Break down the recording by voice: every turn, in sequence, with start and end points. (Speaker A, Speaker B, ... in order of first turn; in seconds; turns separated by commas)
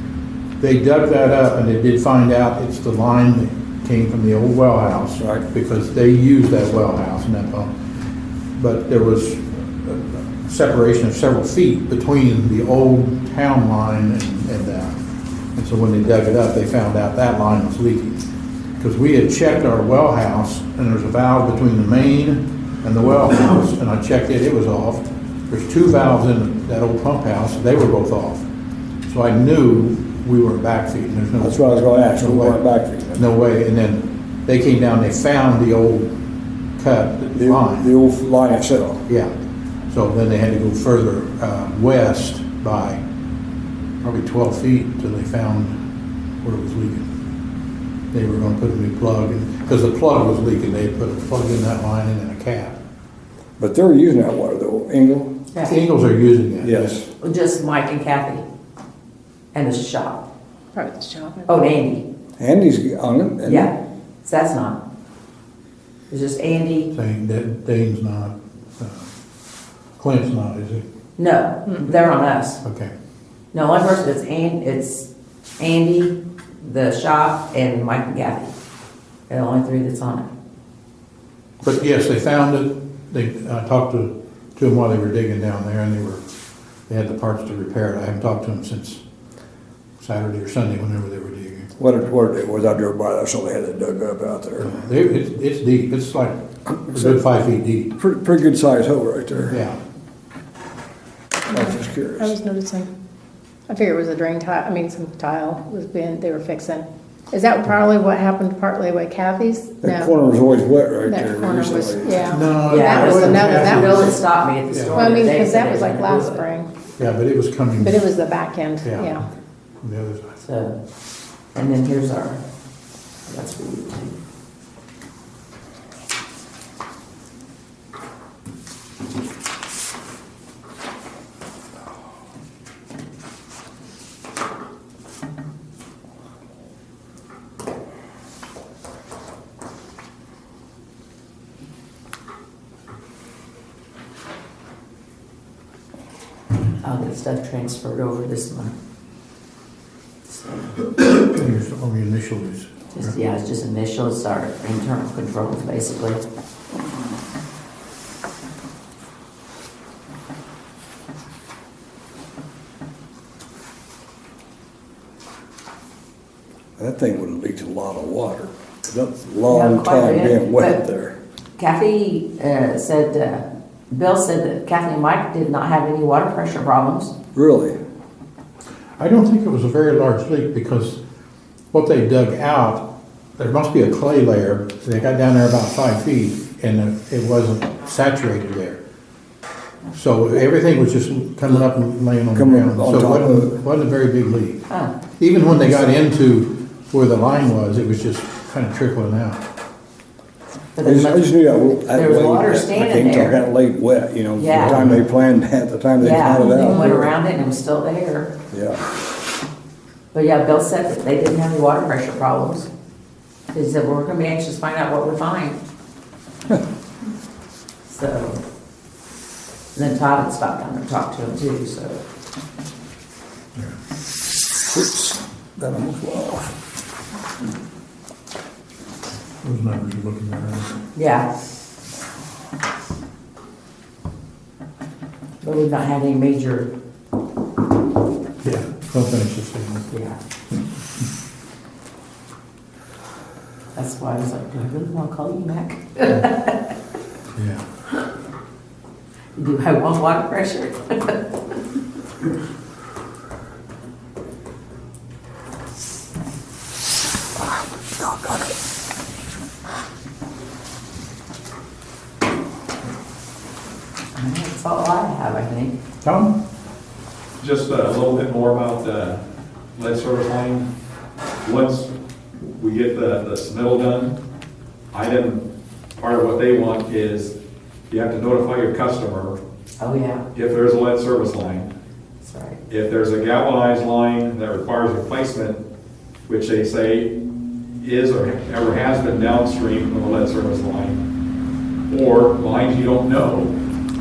Speaker A: 0.6-7.7, Speaker B: 5.2-5.4, Speaker A: 8.6-14.9, Speaker A: 15.5-18.2, Speaker A: 18.8-28.4, Speaker A: 29.1-32.6, Speaker B: 31.4-33.3, Speaker A: 33.1-36.1, Speaker A: 36.8-37.9, Speaker B: 37.3-39.0, Speaker A: 39.1-39.3, Speaker A: 39.9-43.0, Speaker A: 44.0-45.8, Speaker A: 46.4-47.1, Speaker A: 48.1-52.8, Speaker B: 53.6-55.3, Speaker C: 55.5-55.8, Speaker A: 55.6-57.0, Speaker B: 56.6-57.0, Speaker C: 57.2-58.4, Speaker C: 59.5-60.2, Speaker D: 60.7-61.5, Speaker C: 61.5-62.0, Speaker B: 62.4-63.7, Speaker C: 63.4-64.8, Speaker C: 66.1-66.9, Speaker A: 66.9-69.1, Speaker A: 70.0-70.8, Speaker C: 71.2-72.6, Speaker A: 72.6-72.9, Speaker C: 73.5-78.5, Speaker C: 79.3-80.3, Speaker A: 81.6-86.2, Speaker A: 86.9-89.0, Speaker A: 90.0-91.7, Speaker B: 91.8-94.8, Speaker A: 94.6-96.3, Speaker B: 96.7-97.2, Speaker A: 96.9-97.9, Speaker B: 98.0-99.6, Speaker A: 99.5-99.8, Speaker B: 101.5-102.3, Speaker D: 101.5-102.9, Speaker D: 103.7-110.1, Speaker B: 109.8-112.5, Speaker D: 111.0-114.2, Speaker A: 112.3-114.2, Speaker C: 112.7-116.4, Speaker A: 114.7-115.1, Speaker D: 114.9-116.7, Speaker A: 117.0-118.1, Speaker D: 117.8-119.2, Speaker A: 118.8-120.3, Speaker C: 120.4-120.8, Speaker C: 121.5-122.4, Speaker C: 123.3-124.2, Speaker C: 146.8-148.8, Speaker C: 150.2-151.1, Speaker A: 151.2-153.2, Speaker C: 152.9-156.2, Speaker B: 166.8-171.2, Speaker C: 169.5-170.8, Speaker C: 171.6-177.1, Speaker B: 177.3-177.8, Speaker A: 179.0-181.0, Speaker A: 181.7-188.8, Speaker A: 189.9-194.6, Speaker B: 192.3-193.6, Speaker C: 194.7-194.9, Speaker A: 195.2-199.4, Speaker C: 200.7-203.4, Speaker B: 200.8-207.1, Speaker C: 204.4-204.8, Speaker A: 204.5-205.0, Speaker C: 206.0-208.3, Speaker B: 208.5-208.8, Speaker C: 210.1-212.7, Speaker C: 213.5-215.6, Speaker C: 217.9-218.4, Speaker C: 219.7-222.0, Speaker B: 224.7-226.5, Speaker A: 229.4-230.7, Speaker C: 230.9-231.3, Speaker C: 235.4-236.7, Speaker A: 238.4-239.9, Speaker C: 239.9-240.2, Speaker C: 243.7-246.7, Speaker A: 247.3-247.7, Speaker C: 249.3-251.5, Speaker C: 264.1-265.8, Speaker A: 266.0-266.3, Speaker E: 267.4-269.2, Speaker E: 269.8-270.7, Speaker E: 271.4-271.9, Speaker E: 272.4-274.1, Speaker E: 274.9-275.4, Speaker E: 276.0-277.4, Speaker E: 277.9-279.4, Speaker C: 279.8-280.2, Speaker E: 280.3-281.7, Speaker C: 282.2-282.6, Speaker E: 282.7-285.6, Speaker E: 286.3-287.1, Speaker E: 287.8-291.0, Speaker E: 291.9-293.5